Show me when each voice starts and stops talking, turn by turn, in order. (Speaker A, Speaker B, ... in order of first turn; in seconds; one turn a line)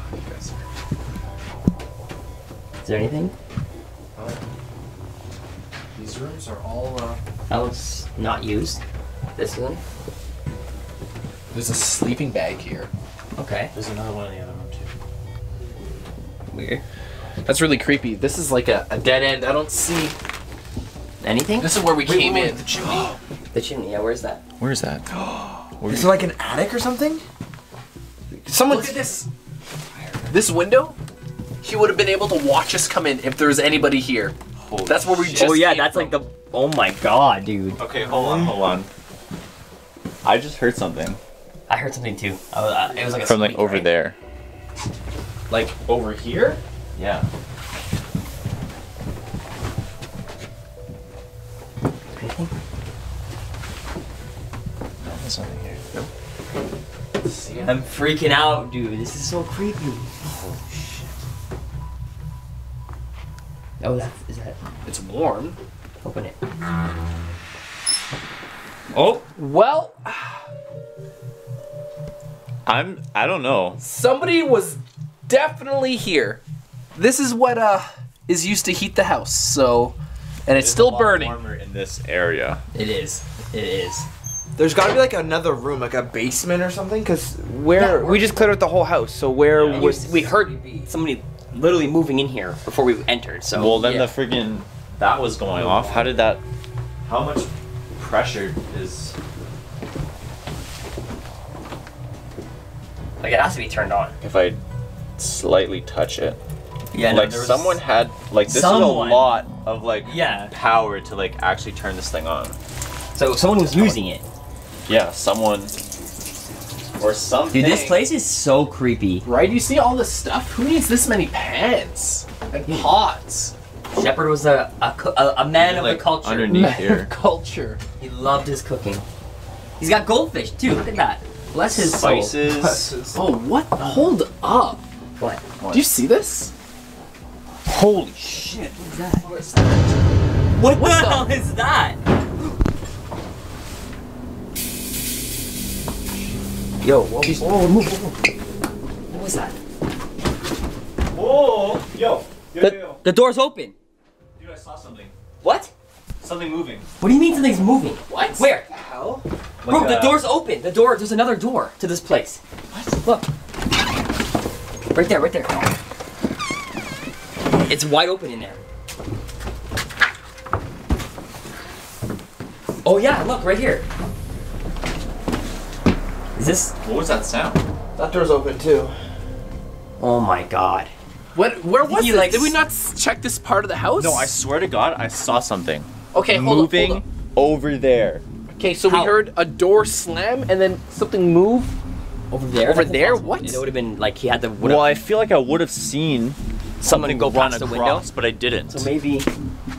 Speaker A: 0.1-0.6
Speaker B: 2.8-3.3
Speaker A: 5.9-7.2
Speaker B: 7.5-8.8
Speaker B: 9.3-9.8
Speaker A: 11.5-12.9
Speaker B: 13.3-13.7
Speaker C: 13.7-14.9
Speaker B: 16.5-16.8
Speaker A: 17.4-20.1
Speaker B: 21.2-21.7
Speaker A: 21.6-23.1
Speaker C: 22.0-23.1
Speaker B: 23.5-24.4
Speaker C: 24.6-25.1
Speaker D: 25.1-27.2
Speaker C: 25.8-26.2
Speaker D: 28.3-29.1
Speaker A: 28.6-29.3
Speaker A: 30.3-31.0
Speaker A: 31.6-36.2
Speaker C: 34.6-35.6
Speaker B: 35.4-37.9
Speaker C: 37.8-38.9
Speaker C: 40.2-41.2
Speaker B: 41.7-43.9
Speaker C: 43.2-44.1
Speaker A: 45.5-46.6
Speaker C: 46.9-47.2
Speaker B: 52.2-52.5
Speaker C: 55.0-56.1
Speaker A: 57.2-57.8
Speaker B: 57.6-60.1
Speaker B: 63.8-64.6
Speaker A: 64.8-65.6
Speaker B: 66.0-66.3
Speaker B: 68.9-69.2
Speaker A: 69.3-70.5
Speaker C: 72.7-73.8
Speaker A: 73.8-76.4
Speaker A: 77.0-81.4
Speaker C: 80.5-82.6
Speaker B: 82.7-84.1
Speaker D: 84.5-90.9
Speaker B: 87.8-88.3
Speaker C: 89.5-90.0
Speaker B: 89.7-94.1
Speaker C: 93.5-96.4
Speaker C: 97.0-99.2
Speaker B: 103.2-104.2
Speaker C: 104.2-104.6
Speaker C: 105.2-106.4
Speaker B: 106.9-107.8
Speaker C: 106.9-112.5
Speaker B: 108.5-109.3
Speaker B: 110.0-110.5
Speaker B: 113.1-114.2
Speaker C: 113.5-114.0
Speaker C: 114.9-115.8
Speaker C: 117.0-118.0
Speaker B: 117.5-119.2
Speaker A: 119.2-123.5
Speaker B: 122.7-123.0
Speaker B: 123.9-126.8
Speaker C: 125.5-127.1
Speaker A: 126.5-127.8
Speaker B: 128.0-129.0
Speaker B: 129.8-132.3
Speaker C: 131.7-132.9
Speaker D: 132.5-133.2
Speaker A: 133.1-134.8
Speaker C: 135.6-135.9
Speaker A: 135.7-136.5
Speaker C: 137.7-138.7
Speaker B: 138.3-139.3
Speaker D: 139.2-139.7
Speaker B: 140.6-142.0
Speaker C: 140.6-141.2
Speaker A: 140.7-141.2
Speaker D: 146.8-147.5
Speaker B: 147.2-148.2
Speaker B: 149.1-149.6
Speaker C: 151.1-153.0
Speaker B: 152.6-153.7
Speaker C: 154.4-155.1
Speaker B: 155.4-155.7
Speaker C: 156.2-156.9
Speaker B: 157.0-158.7
Speaker A: 158.1-158.4
Speaker D: 158.7-159.2
Speaker C: 159.6-160.2
Speaker B: 159.7-162.4
Speaker B: 163.0-163.3
Speaker B: 164.9-165.7
Speaker B: 167.7-168.6
Speaker B: 172.8-173.8
Speaker B: 176.3-176.7
Speaker C: 176.8-177.6
Speaker D: 177.9-178.9
Speaker B: 180.0-180.9
Speaker A: 181.3-184.3
Speaker B: 181.8-182.6
Speaker C: 184.0-188.2
Speaker A: 186.1-187.0
Speaker A: 188.5-191.7
Speaker B: 188.8-189.2
Speaker B: 192.3-195.0
Speaker A: 192.6-193.6
Speaker C: 194.6-198.9
Speaker B: 196.8-198.1
Speaker B: 198.7-199.3